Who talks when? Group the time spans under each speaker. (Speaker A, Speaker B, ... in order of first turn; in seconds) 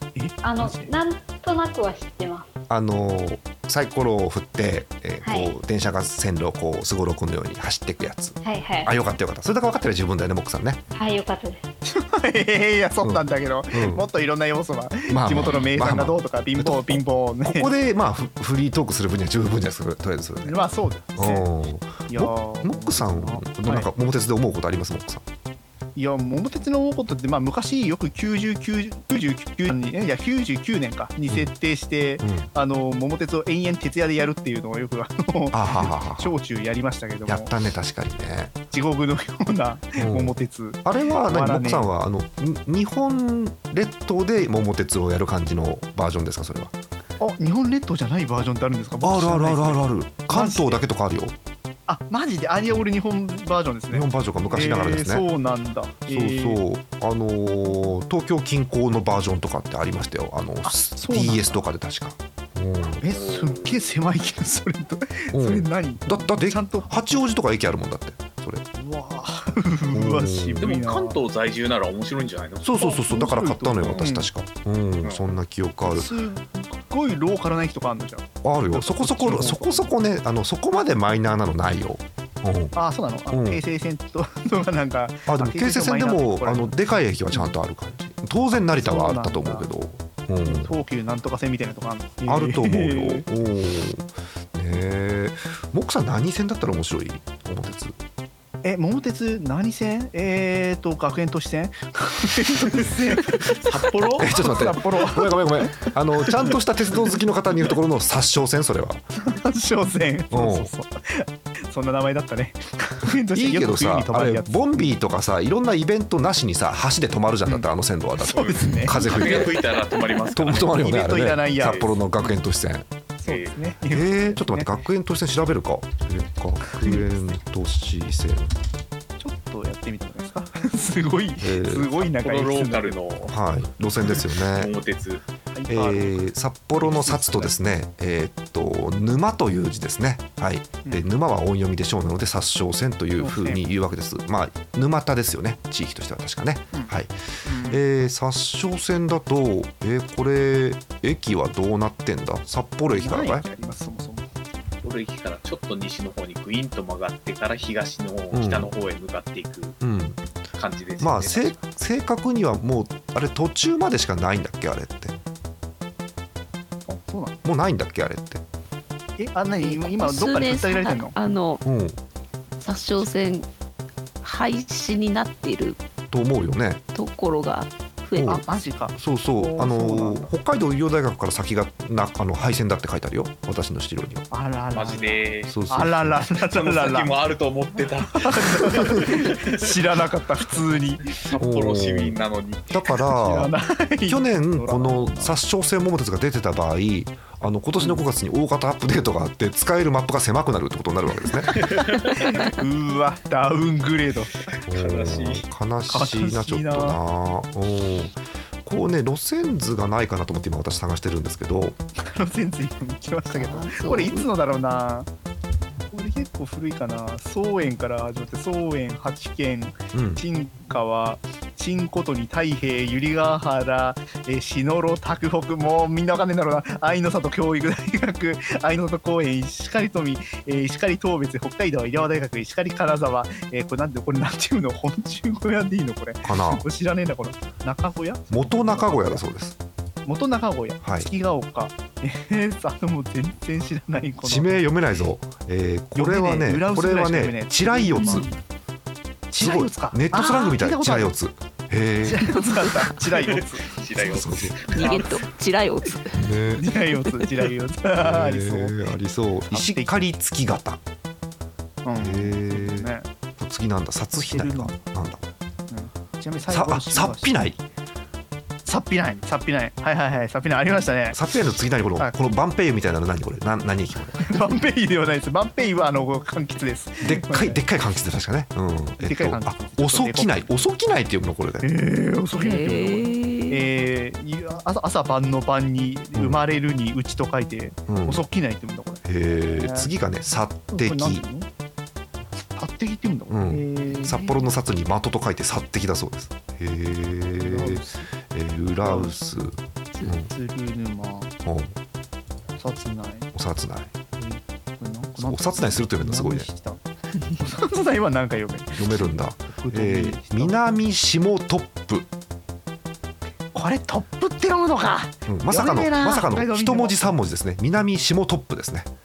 Speaker A: 0.1-0.9, 11.8-17.7, 20.4-21.5, 22.1-23.9, 25.9-37.5, 38.7-41.9, 47.2-50.8, 51.9-56.6, 60.6-61.6, 63.0-66.9, 68.7-71.2, 72.8-74.3, 75.8-79.9, 82.7-86.8, 88.6-89.7, 90.4-93.2, 98.6-105.9, 109.2-114.8, 118.2-119.5, 120.5-121.9, 123.2-124.8, 126.7-127.0, 129.2-132.9, 135.5-136.2, 136.8-137.5, 143.2-143.6, 147.4-147.8, 152.9-154.3, 166.9-167.3, 169.2-171.1, 178.2-180.3, 184.3-187.1, 188.1-191.3, 193.1-195.4, 202.2-204.3, 205.9-207.0, 212.0-215.1, 215.9-239.2, 240.0-244.6, 245.9-248.3, 249.3-251.1, 252.0-253.7, 256.6-258.8, 259.5-259.9, 261.8-263.1, 264.2-264.7, 265.7-267.4, 268.6-271.2, 274.2-277.6, 279.0-280.6, 281.6-289.9, 290.7-291.5, 292.6-294.4, 297.3-298.1, 298.8-299.1, 300.2-301.3, 302.6-303.3, 304.2-310.8, 313.5-317.2
Speaker B: 0.4-2.5, 5.2-5.5, 8.4-8.9, 10.9-11.6
Speaker C: 2.7-10.8, 13.0-14.1, 15.1-20.6, 21.1-25.2, 32.2-32.5, 35.5-36.3, 37.3-38.5, 40.0-40.3, 40.8-46.7, 49.0-51.3, 53.9-55.3, 56.1-63.0, 65.3-68.6, 69.9-70.8, 72.6-76.1, 78.4-82.7, 83.3-83.6, 85.3-90.7, 92.2-98.0, 104.2-109.0, 110.3-110.7, 113.3-119.6, 120.3-122.9, 123.8-128.5, 131.4-132.0, 133.3-134.7, 135.7-153.4, 158.3-158.7, 159.8-160.2, 161.0-165.1, 167.4-168.4, 171.6-172.0, 176.1-176.8, 178.2-178.4, 178.9-184.2, 185.5-186.2, 191.4-192.2, 192.7-193.5, 194.1-201.7, 204.7-211.8, 219.9-220.2, 236.2-236.7, 238.3-239.5, 240.8-241.1, 244.2-248.3, 249.4-252.4, 254.0-254.6, 256.1-256.6, 258.0-260.8, 262.0-265.3, 266.5-267.6, 271.1-274.3, 277.0-281.7, 286.1-286.4, 287.9-288.2, 289.0-291.2, 293.3-300.3, 301.4-301.7, 303.3-303.9, 305.2-306.5, 308.8-312.1, 315.3-318.9
Speaker D: 63.0-63.9, 70.6-72.8, 103.6-104.3, 118.3-120.7, 121.6-121.9, 123.2-123.5, 132.2-133.3, 134.1-135.2, 154.8-159.8, 160.6-161.6, 184.7-185.6, 186.4-189.7, 191.2-192.8, 201.5-202.2, 204.5-205.4, 253.2-255.2
Speaker E: 169.6-171.6, 172.6-173.5, 174.2-175.8, 176.9-178.4, 213.3-214.2, 252.5-252.9, 254.7-256.3, 257.1-257.5, 282.3-283.6